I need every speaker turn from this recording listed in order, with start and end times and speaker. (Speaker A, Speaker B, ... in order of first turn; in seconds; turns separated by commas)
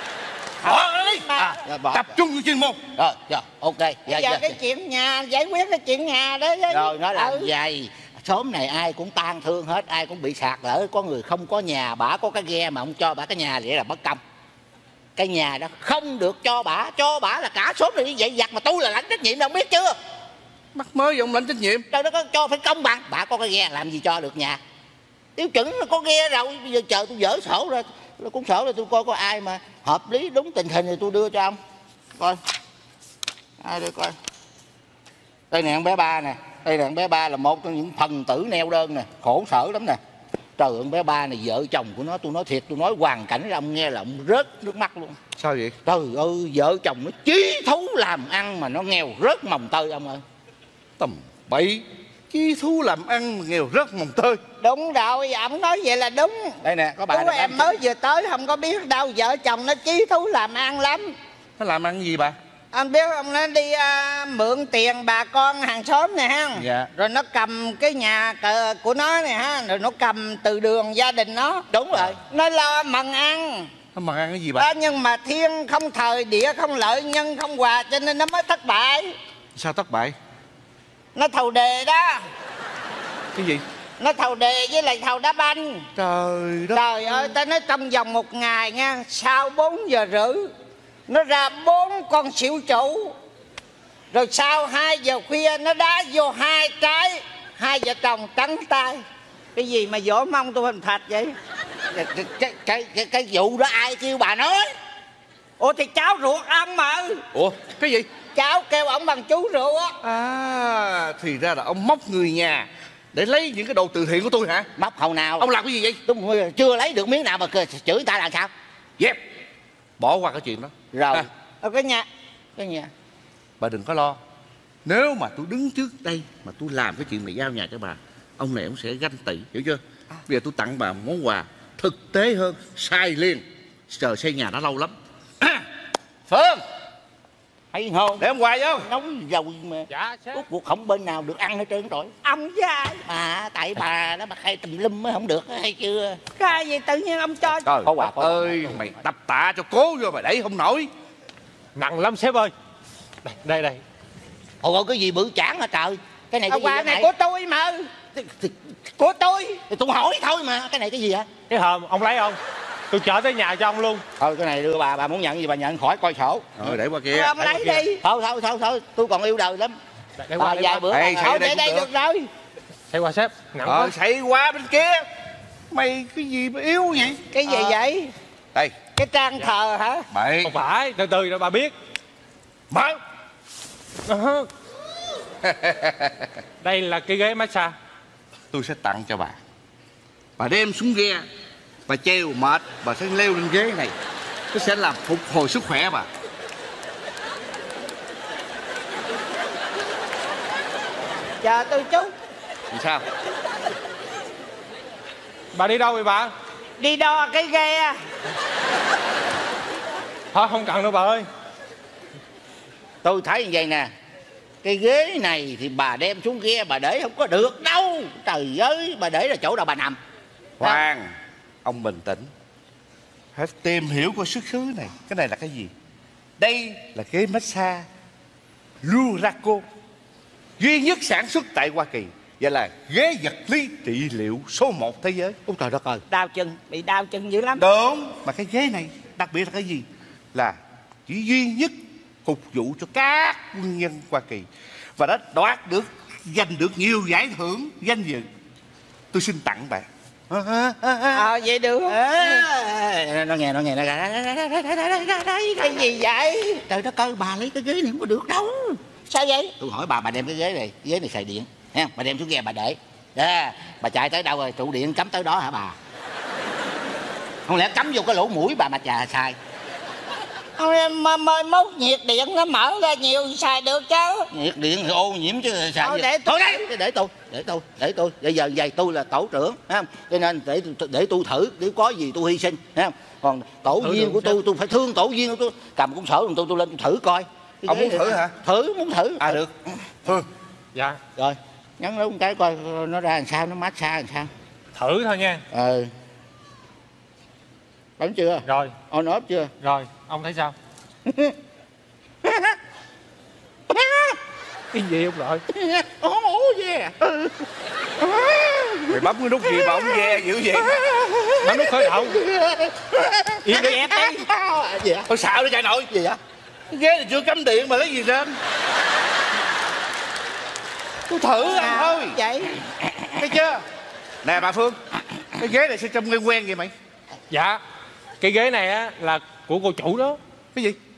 Speaker A: 0.6-1.6, Speaker B: 0.6-2.8, Speaker C: 1.6-2.1, Speaker C: 2.9-4.5, Speaker A: 4.1-7.5, Speaker C: 6.7-14.2, Speaker C: 15.2-19.9, Speaker B: 20.7-21.9, Speaker C: 21.9-24.6, Speaker C: 25.4-31.6, Speaker C: 33.6-34.1, Speaker C: 35.5-40.0, Speaker C: 40.6-45.2, Speaker B: 45.4-45.8, Speaker C: 45.8-50.2, Speaker B: 51.0-54.4, Speaker A: 54.6-61.1, Speaker C: 56.6-57.7, Speaker B: 61.6-62.4, Speaker A: 62.7-71.7, Speaker B: 66.6-66.9, Speaker C: 71.7-72.2, Speaker A: 72.3-73.7, Speaker B: 73.9-74.7, Speaker A: 74.6-79.2, Speaker B: 79.5-80.2, Speaker A: 81.1-82.2, Speaker B: 83.3-83.6, Speaker A: 84.0-85.8, Speaker B: 86.0-87.3, Speaker A: 86.7-90.5, Speaker A: 91.1-93.1, Speaker A: 94.1-99.0, Speaker A: 99.5-101.3, Speaker C: 101.9-104.7, Speaker A: 105.6-107.2, Speaker B: 107.3-108.1, Speaker A: 108.3-109.9, Speaker B: 110.0-114.7, Speaker C: 114.8-115.5, Speaker B: 115.4-116.0, Speaker C: 116.0-118.5, Speaker B: 120.0-121.3, Speaker C: 120.9-121.3, Speaker A: 121.6-122.1, Speaker C: 122.6-122.9, Speaker B: 123.6-124.2, Speaker B: 124.8-134.9, Speaker B: 136.3-136.6, Speaker C: 137.7-138.3, Speaker B: 138.2-138.9, Speaker C: 138.8-142.1, Speaker D: 139.9-140.4, Speaker A: 142.2-143.0, Speaker C: 143.1-146.2, Speaker A: 146.4-147.7, Speaker B: 147.7-150.9, Speaker C: 147.8-148.9, Speaker D: 151.8-152.5, Speaker D: 153.2-153.8, Speaker C: 154.6-157.1, Speaker A: 156.5-157.9, Speaker C: 158.2-158.5, Speaker A: 159.0-159.6, Speaker C: 159.7-161.3, Speaker D: 161.5-162.4, Speaker D: 162.9-164.0, Speaker C: 164.2-166.8, Speaker B: 166.6-167.8, Speaker A: 167.1-168.0, Speaker C: 168.0-169.8, Speaker D: 170.2-170.9, Speaker C: 170.4-171.4, Speaker B: 170.9-171.9, Speaker A: 171.1-172.3, Speaker D: 172.9-173.9, Speaker B: 173.6-175.1, Speaker B: 175.7-177.3, Speaker A: 177.3-178.1, Speaker A: 178.9-180.1, Speaker B: 180.1-180.5, Speaker D: 180.4-181.7, Speaker B: 182.7-183.0, Speaker D: 184.1-184.5, Speaker B: 185.4-186.2, Speaker D: 186.6-187.7, Speaker B: 188.5-189.4, Speaker B: 190.4-191.2, Speaker B: 191.9-193.9, Speaker B: 194.5-196.1, Speaker A: 201.4-202.1, Speaker B: 202.7-203.0, Speaker D: 205.5-206.3, Speaker A: 206.8-207.9, Speaker D: 210.3-211.3, Speaker C: 213.0-213.9, Speaker C: 214.6-220.0, Speaker B: 220.6-221.1, Speaker B: 221.6-222.3, Speaker B: 223.3-225.7, Speaker B: 226.4-227.8, Speaker B: 228.8-229.6, Speaker B: 230.6-235.4, Speaker C: 235.4-236.0, Speaker A: 236.1-237.6, Speaker B: 237.6-248.3, Speaker B: 249.1-249.8, Speaker C: 250.3-251.3, Speaker A: 251.1-252.4, Speaker C: 251.9-255.9, Speaker A: 255.6-256.6, Speaker C: 256.7-258.8, Speaker A: 259.1-259.5, Speaker C: 259.6-265.8, Speaker C: 267.5-269.4, Speaker A: 270.6-274.3, Speaker C: 274.3-289.9, Speaker A: 275.8-276.6, Speaker D: 283.8-284.4, Speaker B: 287.7-288.4, Speaker B: 289.2-289.5, Speaker D: 290.7-291.0, Speaker C: 291.1-294.3, Speaker D: 294.8-295.4, Speaker C: 295.5-295.9, Speaker C: 298.0-299.5, Speaker D: 298.4-298.8, Speaker D: 299.6-300.5, Speaker C: 301.1-301.4, Speaker C: 302.2-302.6, Speaker C: 303.7-304.2, Speaker D: 304.7-305.4, Speaker C: 305.5-307.4, Speaker C: 308.0-315.1, Speaker B: 308.9-311.1, Speaker D: 311.4-312.2, Speaker A: 313.4-314.2, Speaker B: 315.1-315.9, Speaker C: 315.9-316.2, Speaker B: 316.7-318.4, Speaker B: 321.1-322.2, Speaker A: 321.5-322.6, Speaker B: 323.2-323.6, Speaker B: 324.2-324.8, Speaker B: 325.4-326.7, Speaker D: 327.3-327.6, Speaker D: 328.2-330.2